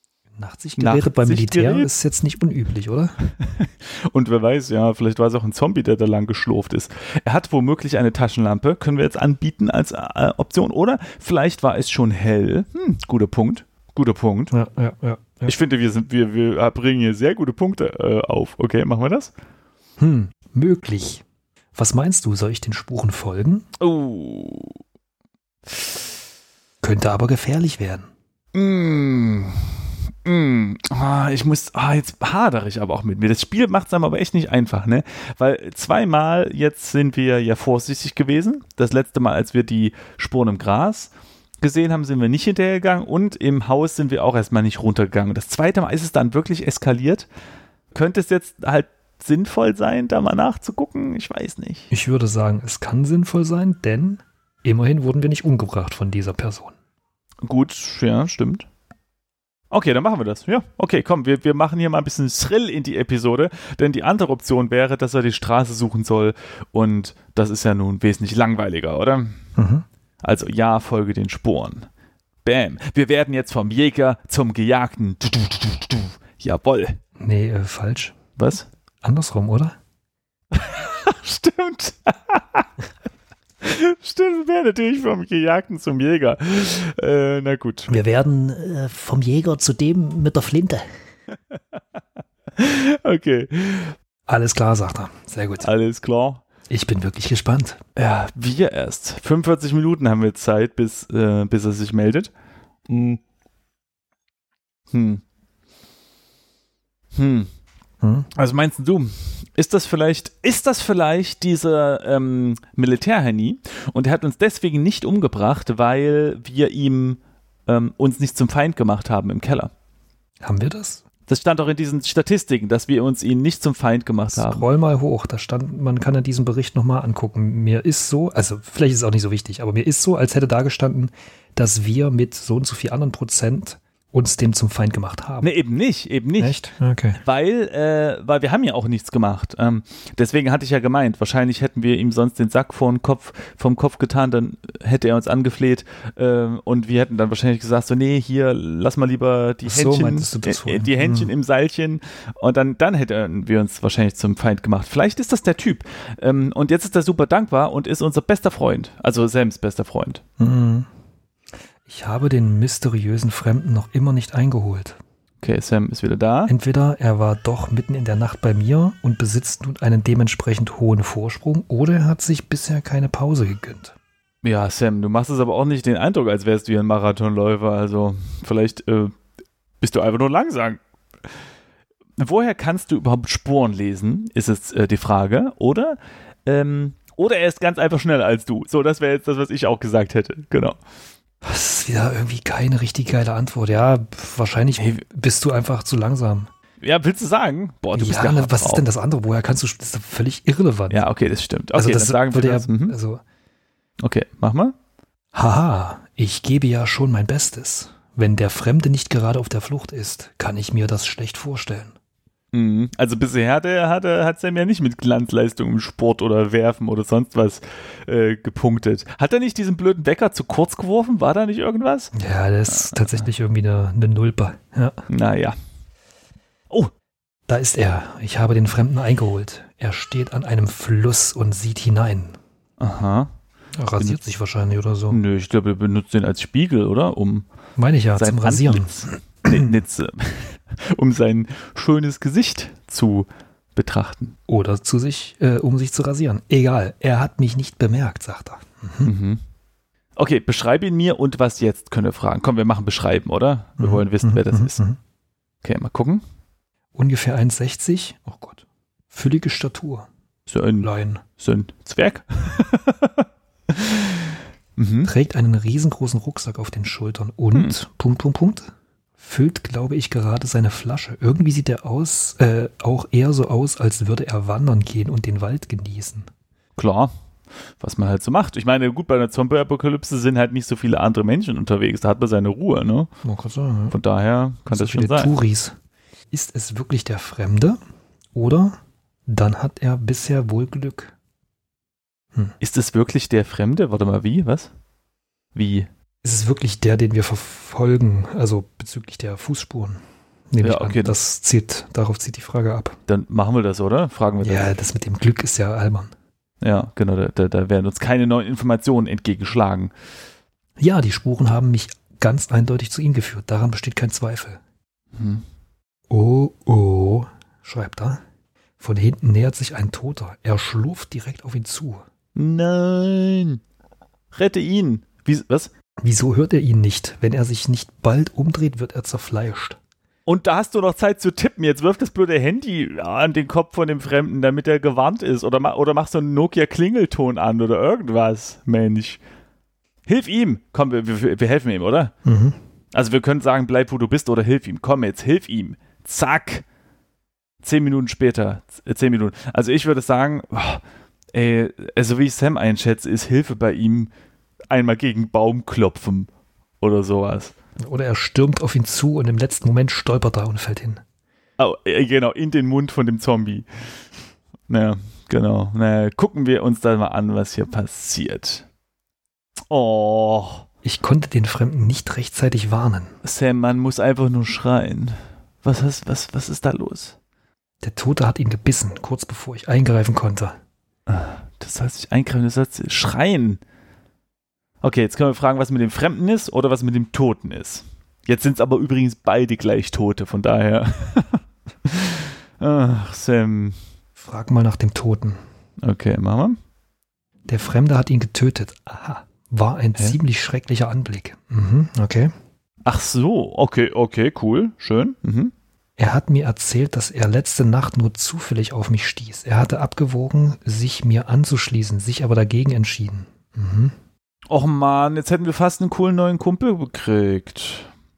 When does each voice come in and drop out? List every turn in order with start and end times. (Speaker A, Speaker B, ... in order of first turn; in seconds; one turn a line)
Speaker A: 0.3-3.2
Speaker B: 0.8-1.9
Speaker B: 3.3-14.5
Speaker A: 14.5-15.6
Speaker B: 15.5-19.3
Speaker A: 20.0-21.2
Speaker A: 21.8-23.7
Speaker B: 23.8-24.8
Speaker A: 26.8-28.1
Speaker B: 28.5-47.3
Speaker B: 47.9-51.9
Speaker A: 51.9-56.8
Speaker B: 57.4-58.7
Speaker B: 59.7-69.4
Speaker A: 69.6-69.8
Speaker B: 70.2-71.9
Speaker B: 72.5-77.0
Speaker A: 77.2-78.2
Speaker B: 78.4-78.7
Speaker A: 79.0-79.8
Speaker B: 80.5-82.7
Speaker B: 83.6-87.9
Speaker A: 87.9-90.9
Speaker B: 91.5-91.8
Speaker B: 92.6-94.0
Speaker A: 94.3-95.7
Speaker B: 95.6-96.4
Speaker A: 96.7-97.8
Speaker B: 98.0-102.3
Speaker B: 102.9-103.2
Speaker B: 104.9-105.2
Speaker B: 107.2-107.5
Speaker A: 108.0-108.3
Speaker B: 108.3-119.7
Speaker A: 120.4-121.0
Speaker B: 121.3-124.7
Speaker A: 124.3-135.5
Speaker B: 135.4-136.6
Speaker A: 136.4-137.2
Speaker B: 137.2-160.2
Speaker A: 149.7-151.3
Speaker A: 160.4-160.9
Speaker A: 161.9-165.0
Speaker B: 165.4-166.5
Speaker A: 166.5-173.9
Speaker B: 174.4-179.2
Speaker B: 179.8-180.8
Speaker B: 182.2-190.8
Speaker A: 191.4-196.5
Speaker B: 194.8-195.0
Speaker B: 196.8-198.8
Speaker A: 198.0-201.1
Speaker B: 200.9-202.9
Speaker A: 201.7-203.2
Speaker B: 204.0-204.7
Speaker A: 205.3-211.9
Speaker B: 212.5-222.1
Speaker A: 222.1-225.0
Speaker B: 222.7-223.2
Speaker B: 225.1-225.6
Speaker A: 227.5-232.4
Speaker B: 232.8-233.3
Speaker A: 233.8-235.2
Speaker B: 235.1-237.5
Speaker A: 237.8-239.7
Speaker B: 238.2-244.4
Speaker A: 244.5-249.1
Speaker B: 249.0-249.4
Speaker B: 250.2-254.8
Speaker A: 253.8-255.0
Speaker B: 255.6-256.2
Speaker A: 256.9-260.1
Speaker B: 260.5-265.1
Speaker A: 260.8-261.2
Speaker A: 265.1-276.3
Speaker B: 276.8-277.1
Speaker B: 277.8-283.1
Speaker A: 283.2-283.9
Speaker B: 283.9-285.3
Speaker A: 284.7-285.8
Speaker A: 286.3-287.8
Speaker A: 288.3-291.1
Speaker B: 292.6-294.7
Speaker B: 295.6-295.9
Speaker A: 296.2-303.0
Speaker B: 300.6-301.2
Speaker B: 303.1-304.8
Speaker A: 304.4-306.1
Speaker B: 306.6-309.9
Speaker A: 310.8-314.6
Speaker B: 315.1-315.4
Speaker A: 316.1-318.2
Speaker A: 318.8-322.0
Speaker B: 322.4-323.6
Speaker B: 324.3-325.7
Speaker A: 326.0-329.8
Speaker B: 330.3-339.2
Speaker B: 340.1-342.1
Speaker A: 342.2-342.6
Speaker B: 342.9-346.6
Speaker B: 347.6-350.8
Speaker B: 351.3-354.1
Speaker B: 354.7-356.3
Speaker B: 356.8-357.5
Speaker A: 357.8-361.0
Speaker B: 361.6-363.7
Speaker B: 364.7-368.7
Speaker B: 369.7-370.7
Speaker A: 370.8-373.1
Speaker B: 373.2-377.2
Speaker A: 377.8-380.6
Speaker B: 381.1-383.6
Speaker B: 384.8-393.8
Speaker A: 394.2-395.4
Speaker B: 395.8-396.6
Speaker A: 397.5-402.3
Speaker B: 402.9-405.5
Speaker A: 406.0-414.0
Speaker B: 414.5-417.9